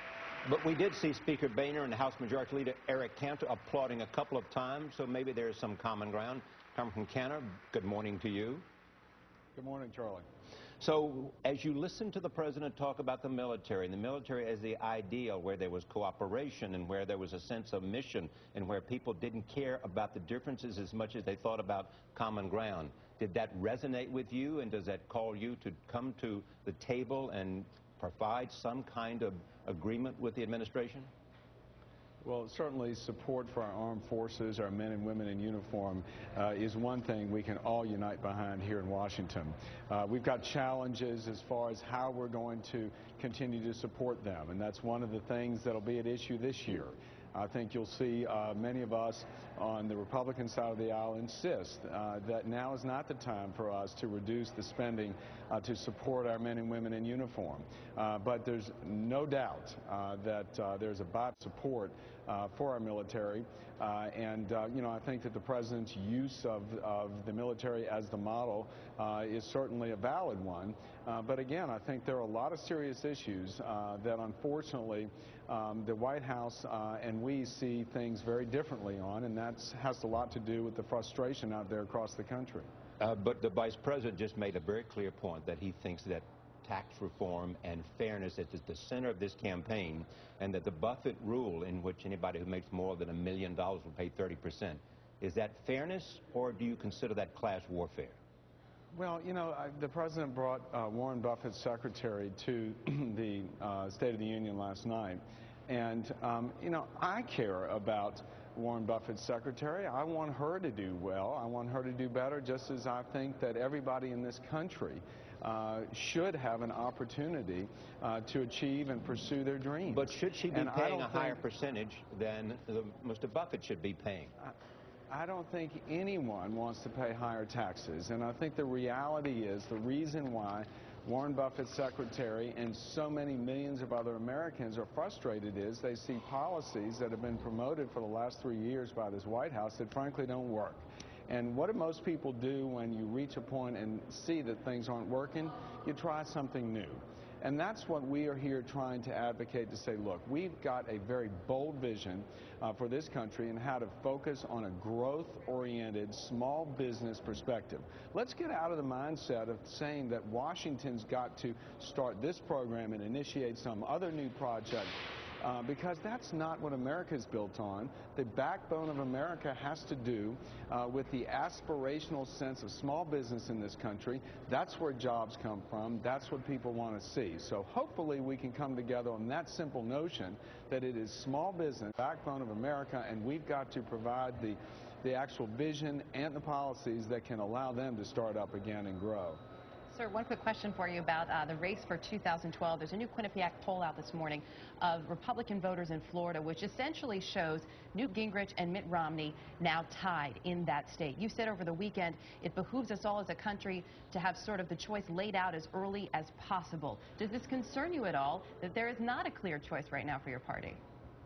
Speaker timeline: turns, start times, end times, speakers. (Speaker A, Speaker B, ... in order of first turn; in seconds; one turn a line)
Speaker A: 0.4-8.6
Speaker B: 9.5-10.2
Speaker A: 10.8-31.1
Speaker B: 32.2-82.7
Speaker A: 83.0-98.2
Speaker B: 98.9-121.4
Speaker A: 119.9-124.3
Speaker B: 125.1-189.4
Speaker C: 189.9-210.8